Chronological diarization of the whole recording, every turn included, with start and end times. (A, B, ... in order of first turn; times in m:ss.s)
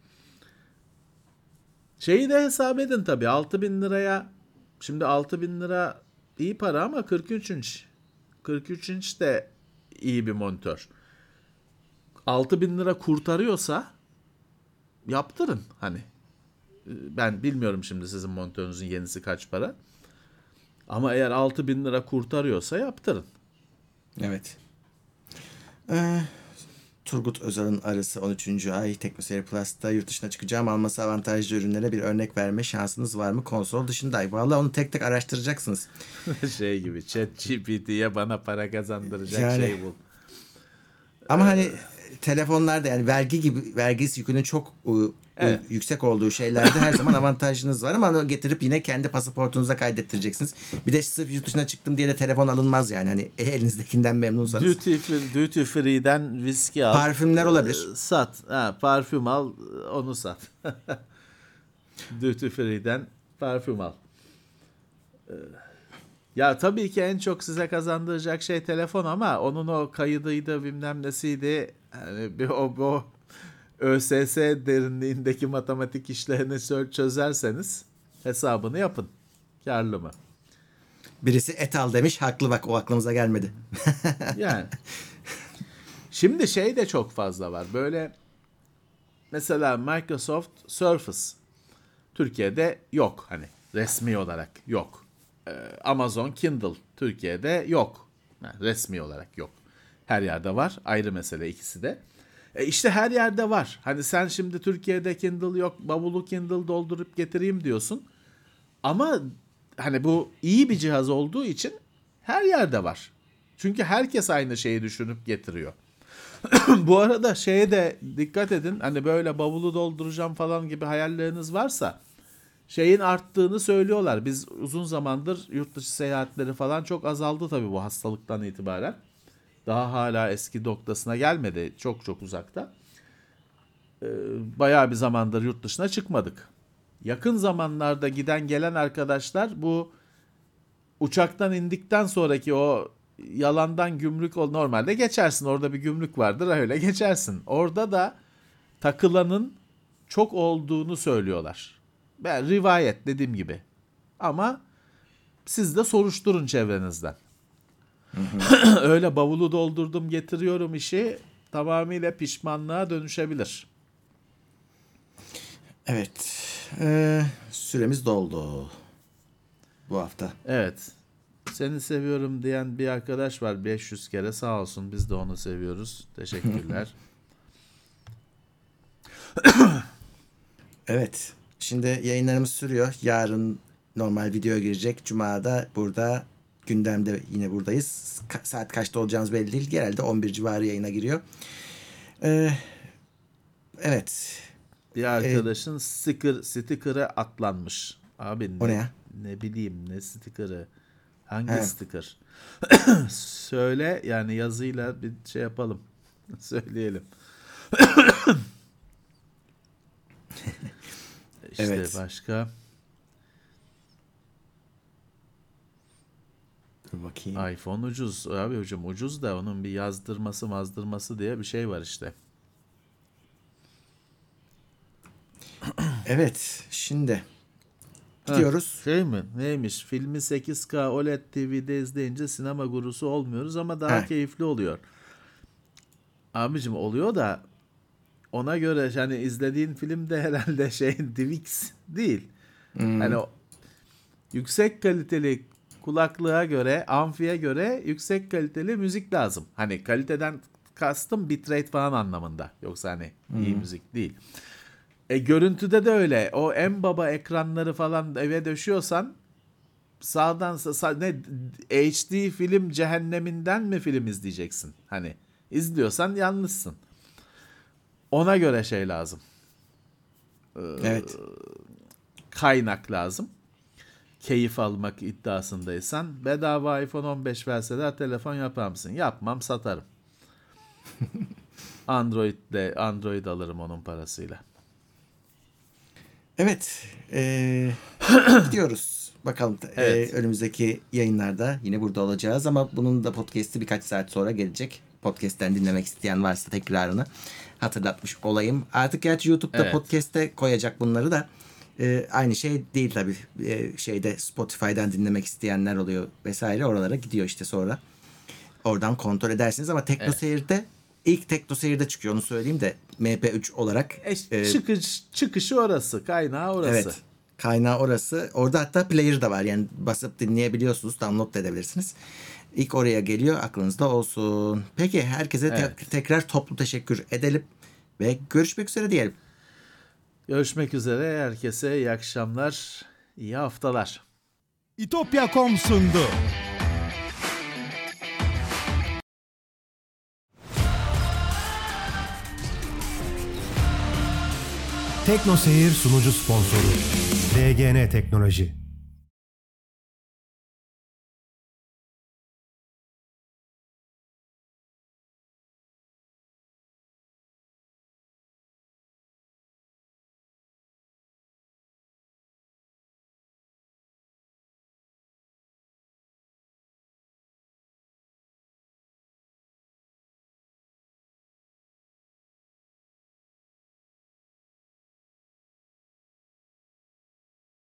0:02.0-0:07.9 A
0:08.4-0:10.9 A
0:12.3-0:13.9 A
0:15.1-0:16.1 A
0:16.9-0:19.8 A
0:20.9-0:23.3 A
0:24.2-0:24.6 B
0:25.9-0:26.5 B
0:27.0-0:35.9 B
0:36.2-0:40.0 A
0:39.3-0:39.8 B
0:41.3-0:41.8 A
0:41.3-0:54.8 B
0:45.4-0:45.6 A
0:46.6-0:47.0 A
0:54.4-1:01.0 A
0:56.9-0:57.9 B
1:02.1-1:04.0 A
1:05.3-1:05.6 A
1:06.4-1:13.1 A
1:13.8-1:19.1 A
1:19.6-1:20.2 A
1:21.2-1:24.4 B
1:24.3-1:24.8 A
1:26.1-1:28.1 A
1:29.3-1:31.4 A
1:32.1-1:42.0 A
1:42.6-1:48.1 A
1:48.8-1:55.8 A
1:56.4-2:02.0 A
2:02.7-2:09.0 A
2:09.7-2:12.7 A
2:14.0-2:16.5 A
2:17.0-2:19.9 A
2:21.0-2:28.2 A
2:28.8-2:33.6 A
2:34.2-2:34.6 A
2:35.5-2:37.2 A
2:38.1-2:38.5 B
2:38.4-2:43.7 A
2:45.9-2:48.8 B
2:49.9-2:50.4 B
2:50.4-2:50.9 A
2:51.5-2:57.0 A
2:59.4-2:59.9 A
3:00.9-3:11.2 B
3:12.2-3:12.8 B
3:13.8-3:14.5 B
3:14.9-3:20.7 A
3:15.2-3:15.5 B
3:18.6-3:18.9 B
3:21.3-3:27.1 A
3:27.7-3:28.4 A
3:31.5-3:32.5 A
3:31.6-3:32.0 B
3:36.9-3:37.5 B
3:37.4-3:42.1 A
3:46.0-3:47.2 B
3:48.2-3:48.8 B
3:48.3-3:54.8 A
3:56.4-3:57.4 A
3:58.3-4:02.3 A
4:02.8-4:03.2 B
4:03.0-4:03.3 A
4:04.3-4:14.2 A
4:13.3-4:13.7 B
4:15.1-4:19.2 A
4:20.0-4:26.8 A
4:28.1-4:29.2 A
4:30.6-4:31.5 A
4:30.8-4:31.1 B
4:32.3-4:33.3 A
4:34.2-4:39.9 A
4:41.9-4:44.4 A
4:46.4-4:47.8 B
4:48.4-5:07.8 B
4:49.8-4:50.1 A
4:59.5-4:59.8 A
5:08.6-5:14.6 B
5:14.0-5:17.0 A
5:16.6-5:22.0 B
5:22.5-5:27.5 B
5:25.5-5:25.8 A
5:28.0-5:29.2 B
5:30.3-5:34.0 A
5:34.8-5:36.2 C
5:45.0-5:48.6 C